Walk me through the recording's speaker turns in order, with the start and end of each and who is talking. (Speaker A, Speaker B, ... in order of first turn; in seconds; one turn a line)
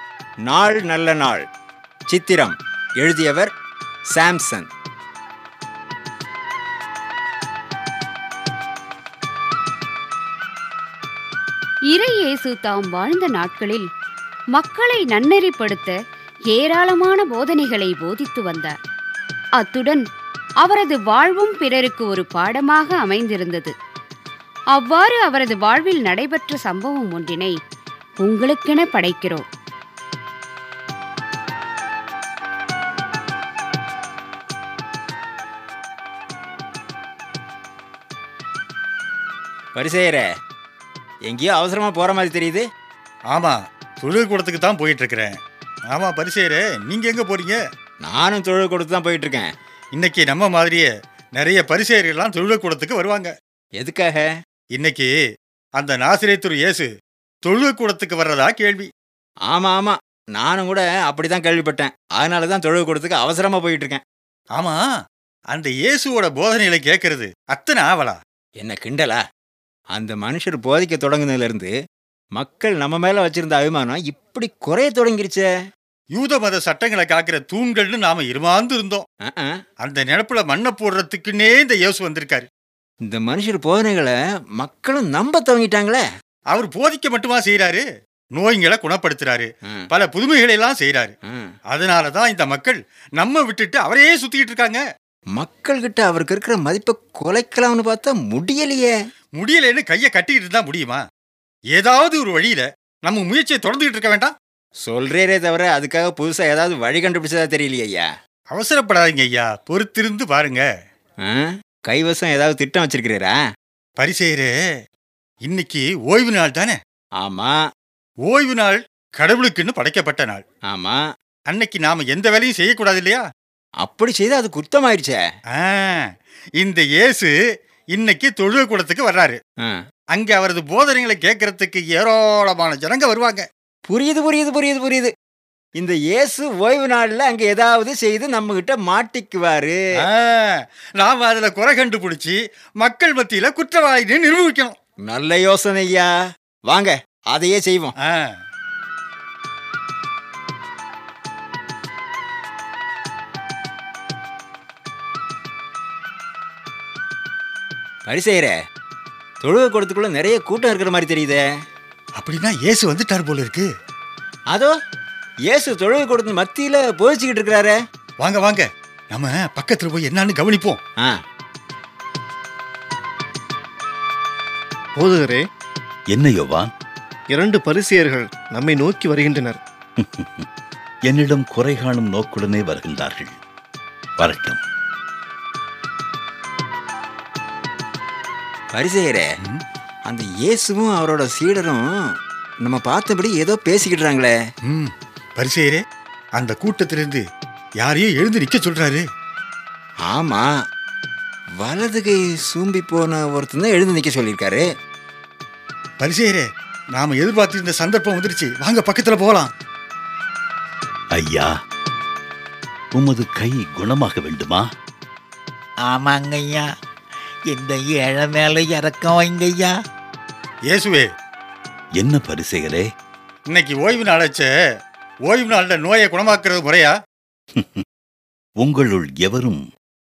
Speaker A: 0.5-1.4
Speaker A: 2.1-3.5
Speaker A: 4.1-4.7
Speaker B: 11.9-13.8
Speaker B: 14.5-16.0
Speaker B: 16.5-18.7
Speaker B: 19.6-20.0
Speaker B: 20.6-23.7
Speaker B: 24.7-27.5
Speaker B: 28.2-29.4
Speaker A: 39.8-40.2
Speaker A: 41.3-42.6
Speaker C: 43.3-45.4
Speaker C: 45.9-47.6
Speaker A: 48.0-49.5
Speaker C: 49.9-53.3
Speaker A: 53.8-54.3
Speaker C: 54.7-55.1
Speaker C: 55.8-56.9
Speaker C: 57.4-58.9
Speaker A: 59.5-64.0
Speaker C: 65.5-68.2
Speaker A: 68.6-69.2
Speaker A: 69.9-71.7
Speaker A: 72.4-75.5
Speaker C: 76.1-79.0
Speaker C: 79.8-82.5
Speaker A: 83.1-86.0
Speaker C: 86.5-87.8
Speaker C: 88.3-91.1
Speaker C: 91.7-94.8
Speaker A: 95.4-98.9
Speaker C: 99.4-101.0
Speaker C: 101.7-104.3
Speaker A: 104.8-108.0
Speaker C: 108.5-110.6
Speaker A: 111.2-113.4
Speaker C: 114.0-114.5
Speaker C: 115.4-116.8
Speaker A: 117.2-117.5
Speaker C: 118.2-120.4
Speaker A: 120.7-121.0
Speaker C: 121.5-123.2
Speaker A: 123.8-125.2
Speaker C: 125.5-126.1
Speaker C: 126.6-127.3
Speaker C: 127.9-129.4
Speaker C: 130.1-133.5
Speaker A: 133.9-135.1
Speaker A: 135.8-139.8
Speaker C: 140.0-144.8
Speaker A: 145.1-146.1
Speaker A: 146.7-147.9
Speaker C: 148.0-148.3
Speaker A: 158.1-158.5
Speaker A: 159.4-161.4
Speaker C: 162.2-163.7
Speaker A: 165.5-167.8
Speaker C: 168.2-170.8
Speaker D: 174.9-175.4
Speaker E: 176.1-176.7
Speaker D: 177.3-179.6
Speaker E: 180.0-180.5
Speaker E: 181.1-183.3
Speaker E: 184.2-184.6
Speaker A: 188.7-189.2
Speaker A: 190.1-191.9
Speaker A: 192.6-194.3
Speaker C: 194.7-195.8
Speaker C: 196.4-197.2
Speaker C: 197.8-199.0
Speaker A: 200.1-200.5
Speaker A: 201.6-204.6
Speaker C: 206.0-209.5
Speaker E: 211.1-211.5
Speaker E: 212.9-214.7
Speaker F: 215.8-216.7
Speaker F: 217.4-219.8
Speaker C: 220.7-221.1
Speaker E: 222.0-222.9
Speaker C: 223.5-224.5
Speaker C: 225.3-226.9
Speaker E: 227.5-227.8
Speaker E: 228.6-229.6